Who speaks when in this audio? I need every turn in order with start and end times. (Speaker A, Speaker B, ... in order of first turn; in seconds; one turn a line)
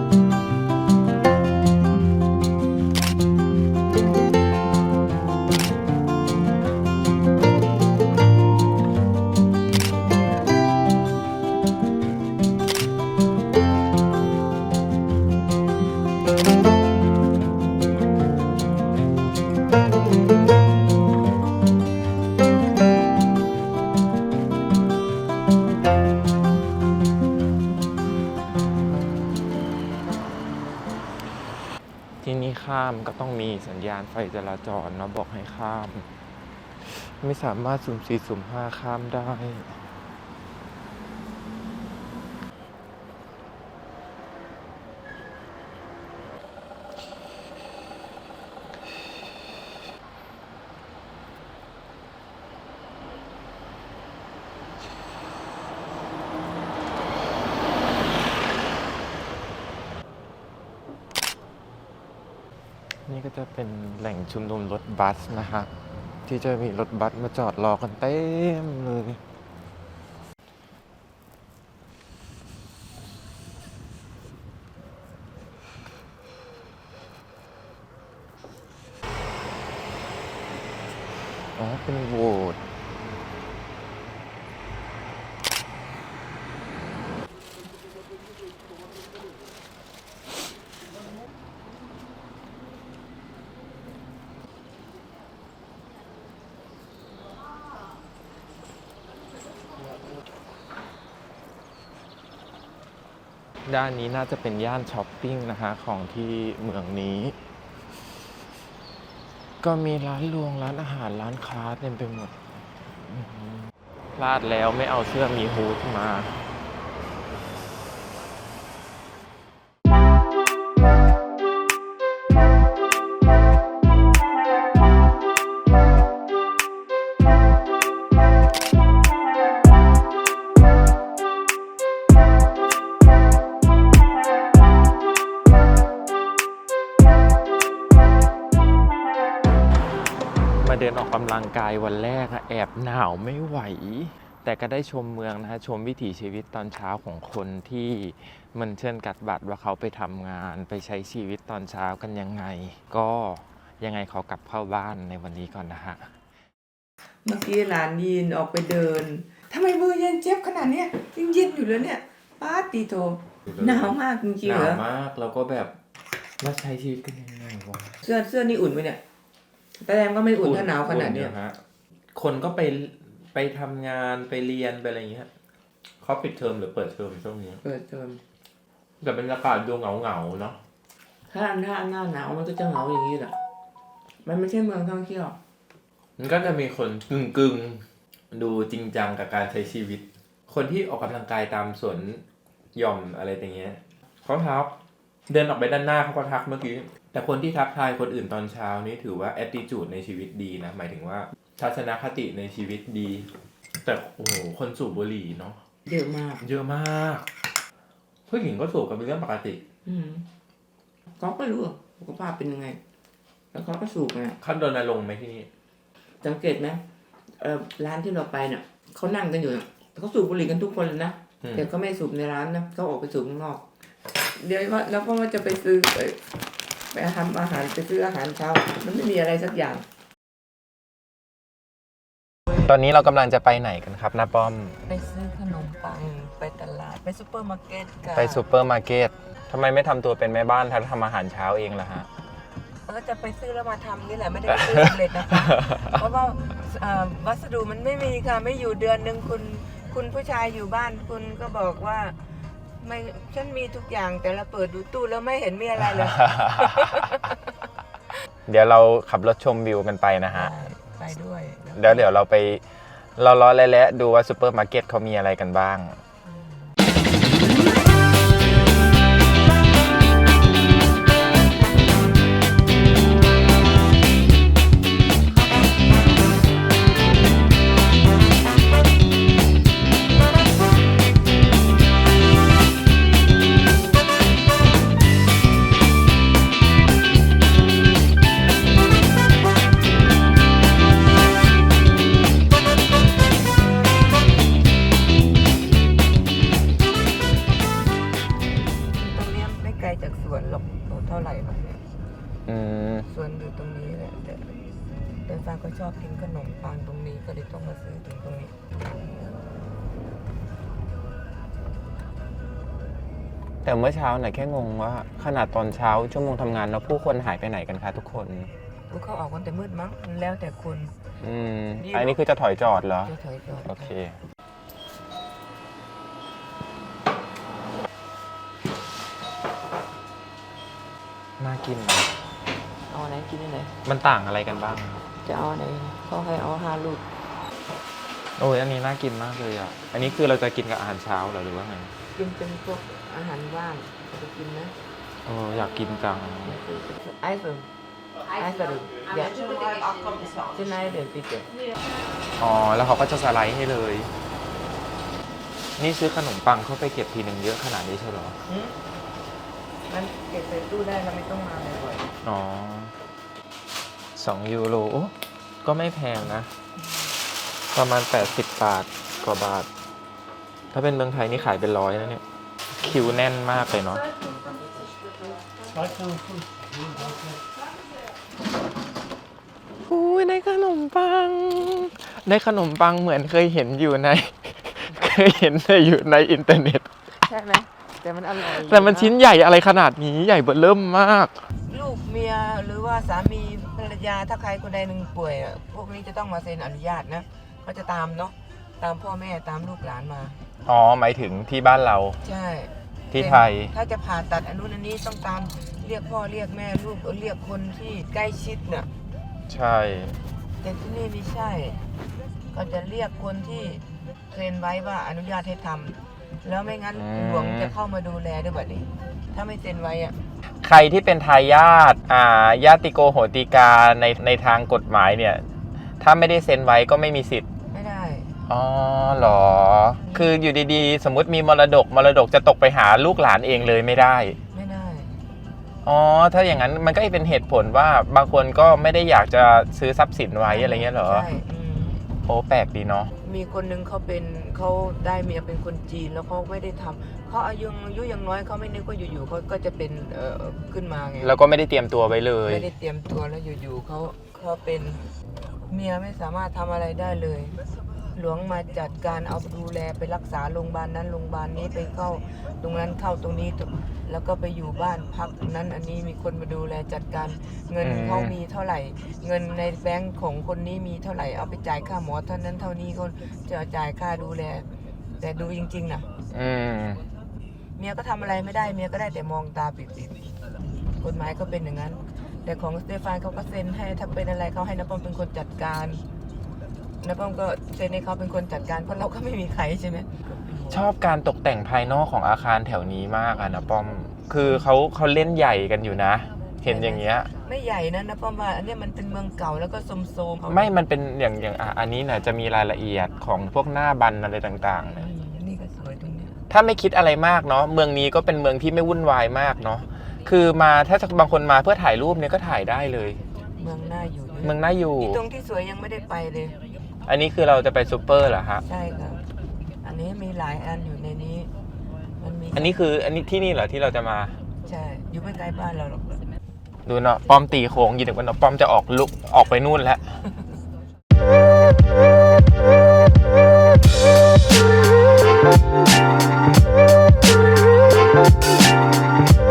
Speaker A: 32.2-36.1
Speaker A: 36.8-39.8
Speaker A: 63.1-65.7
Speaker A: 66.3-69.2
Speaker A: 81.6-82.6
Speaker A: 103.7-107.4
Speaker A: 109.6-112.3
Speaker A: 113.0-116.4
Speaker A: 140.6-156.1
Speaker B: 157.2-164.8
Speaker A: 164.4-165.8
Speaker A: 166.4-168.0
Speaker B: 168.0-169.0
Speaker B: 169.8-171.3
Speaker A: 170.4-171.6
Speaker A: 172.2-175.3
Speaker A: 176.0-177.6
Speaker B: 177.6-178.2
Speaker A: 179.0-180.6
Speaker B: 181.3-183.3
Speaker B: 184.2-185.4
Speaker A: 186.2-192.2
Speaker A: 192.8-194.8
Speaker A: 195.3-203.3
Speaker A: 203.8-205.6
Speaker B: 205.9-206.4
Speaker A: 206.4-207.3
Speaker A: 208.3-209.6
Speaker B: 209.8-210.3
Speaker B: 211.2-212.8
Speaker B: 213.5-214.4
Speaker A: 214.4-215.5
Speaker B: 216.2-216.8
Speaker B: 217.4-223.6
Speaker B: 224.2-226.2
Speaker B: 226.9-229.8
Speaker A: 232.5-234.8
Speaker B: 234.9-238.4
Speaker A: 238.2-242.1
Speaker B: 242.9-252.2
Speaker B: 252.8-257.4
Speaker A: 256.1-257.1
Speaker A: 258.5-260.5
Speaker B: 260.3-262.1
Speaker A: 261.8-262.6
Speaker A: 263.2-266.0
Speaker B: 266.3-266.7
Speaker B: 298.9-301.8
Speaker A: 302.5-303.1
Speaker B: 303.1-304.6
Speaker B: 305.3-308.6
Speaker A: 313.6-318.5
Speaker B: 318.9-320.9
Speaker A: 321.2-323.1
Speaker B: 321.8-322.2
Speaker B: 323.1-323.9
Speaker A: 323.7-324.2
Speaker A: 331.4-332.1
Speaker B: 332.9-333.8
Speaker A: 333.9-335.0
Speaker B: 335.2-337.0
Speaker A: 338.4-341.9
Speaker B: 342.1-344.8
Speaker A: 345.2-346.6
Speaker B: 346.4-347.7
Speaker B: 348.3-351.5
Speaker A: 352.4-354.1
Speaker A: 355.8-358.4
Speaker B: 358.5-358.8
Speaker B: 359.9-362.1
Speaker A: 362.2-362.9
Speaker A: 364.2-366.5
Speaker A: 367.7-369.7
Speaker A: 370.7-372.2
Speaker A: 372.8-374.1
Speaker A: 379.8-386.9
Speaker B: 387.2-389.1
Speaker A: 388.4-391.4
Speaker B: 391.7-400.4
Speaker A: 400.6-402.2
Speaker B: 402.2-408.9
Speaker A: 403.1-403.7
Speaker A: 409.5-410.2
Speaker B: 410.6-411.8
Speaker B: 412.5-420.2
Speaker A: 417.0-417.7
Speaker A: 420.6-425.5
Speaker A: 426.0-427.5
Speaker B: 427.7-428.3
Speaker A: 428.5-434.4
Speaker B: 430.1-430.3
Speaker B: 434.5-435.2
Speaker A: 435.8-441.3
Speaker B: 440.5-442.0
Speaker A: 442.3-443.1
Speaker B: 443.2-451.3
Speaker A: 451.2-452.7
Speaker B: 452.5-455.0
Speaker B: 455.7-457.6
Speaker B: 458.1-476.1
Speaker A: 467.8-468.4
Speaker A: 476.3-477.0
Speaker B: 477.8-480.3
Speaker B: 481.0-486.0
Speaker B: 487.0-490.9
Speaker A: 490.7-497.3
Speaker B: 496.6-500.7
Speaker A: 500.5-505.1
Speaker B: 504.9-506.4
Speaker A: 506.5-513.2
Speaker B: 513.6-516.6
Speaker A: 514.4-515.2
Speaker A: 517.1-518.6
Speaker B: 518.7-519.2
Speaker B: 519.8-521.5
Speaker B: 522.2-522.8
Speaker A: 522.5-524.4
Speaker B: 524.6-526.2
Speaker A: 526.9-530.2